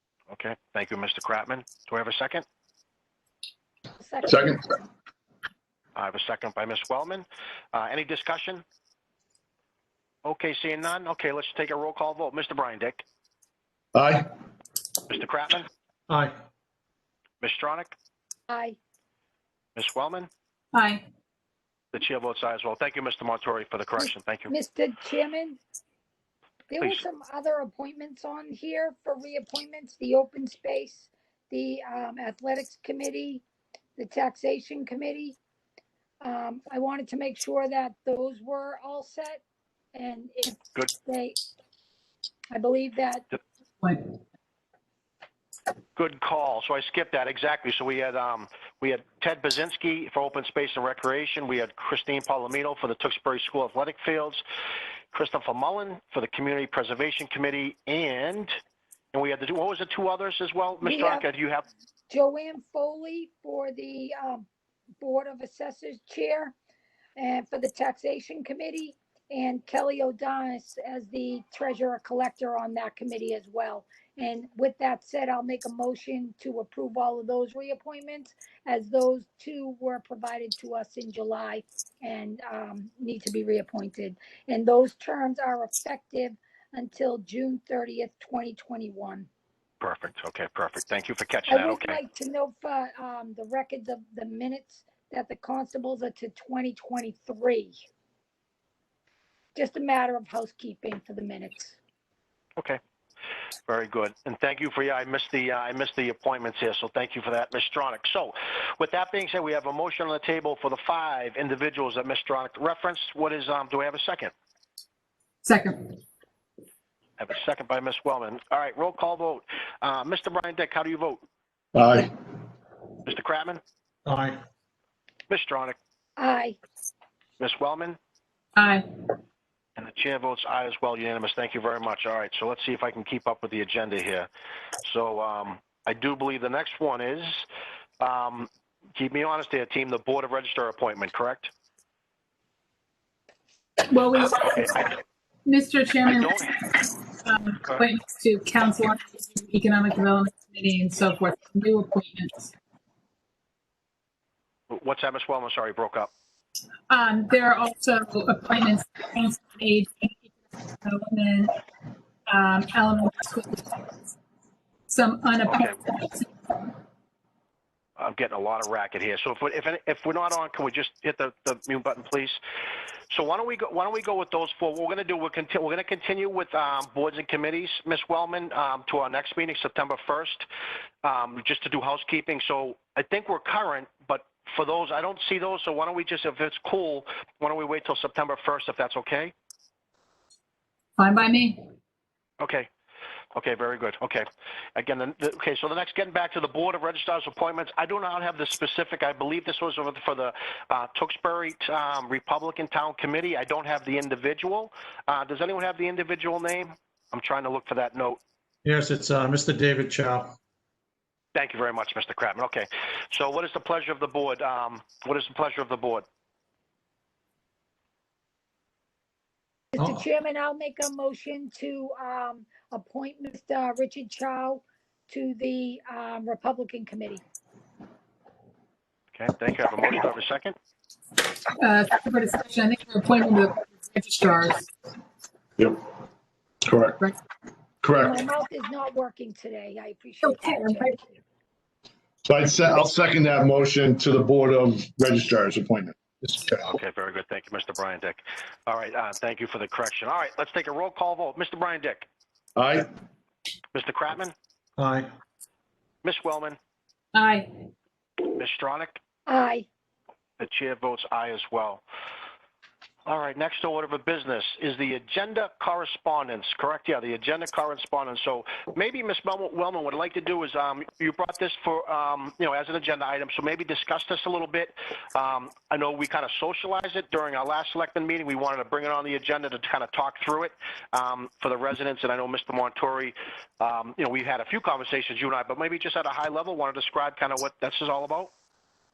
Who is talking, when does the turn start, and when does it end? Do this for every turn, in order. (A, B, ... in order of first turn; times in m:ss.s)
0:00.3-0:02.4 A
0:04.0-0:04.6 B
0:04.3-0:04.6 C
0:06.0-0:08.6 A
0:10.2-0:13.0 A
0:13.9-0:14.3 C
0:15.1-0:15.7 A
0:17.4-0:17.9 A
0:18.5-0:18.8 B
0:19.8-0:20.3 A
0:20.7-0:21.0 D
0:21.9-0:24.5 A
0:24.0-0:25.6 B
0:26.7-0:33.4 B
0:34.0-0:35.4 B
0:36.2-0:39.4 B
0:39.9-0:41.4 B
0:42.5-0:43.2 B
0:43.8-0:44.2 D
0:46.0-0:54.4 A
0:55.1-0:58.6 A
0:59.1-1:01.6 A
1:00.8-1:01.2 B
1:02.1-1:04.5 B
1:05.0-1:06.5 B
1:07.2-1:29.3 B
1:29.8-1:32.0 A
1:31.5-1:37.8 B
1:39.5-1:41.8 B
1:43.7-1:54.3 A
1:55.4-1:56.0 D
1:57.2-2:01.2 A
2:01.7-2:02.1 C
2:03.0-2:03.6 A
2:04.0-2:04.4 E
2:05.3-2:05.8 A
2:06.2-2:06.6 B
2:07.4-2:08.0 A
2:08.6-2:09.1 D
2:09.8-2:14.3 A
2:14.8-2:17.4 A
2:18.0-2:21.5 A
2:23.9-2:32.5 D
2:26.2-2:26.4 A
2:34.7-2:36.1 A
2:36.9-2:41.5 D
2:42.3-2:44.0 D
2:44.9-2:46.8 D
2:48.0-2:52.4 A
2:53.1-3:00.4 A
3:01.0-3:09.3 A
3:11.0-3:11.7 D
3:12.4-3:12.7 A
3:13.3-3:28.2 A
3:28.6-3:30.3 E
3:31.3-3:36.0 A
3:39.7-3:47.2 B
3:49.1-3:50.6 A
3:51.5-3:54.7 D
3:56.6-3:57.0 C
3:57.8-3:58.2 C
3:58.0-4:01.0 B
4:00.2-4:01.0 D
4:02.2-4:06.7 C
4:06.6-4:12.0 A
4:12.6-4:12.9 C
4:13.7-4:14.3 A
4:14.8-4:15.1 E
4:16.0-4:16.6 A
4:17.1-4:17.7 D
4:18.3-4:19.0 A
4:19.3-4:19.7 B
4:20.4-4:21.8 A
4:23.0-4:48.3 A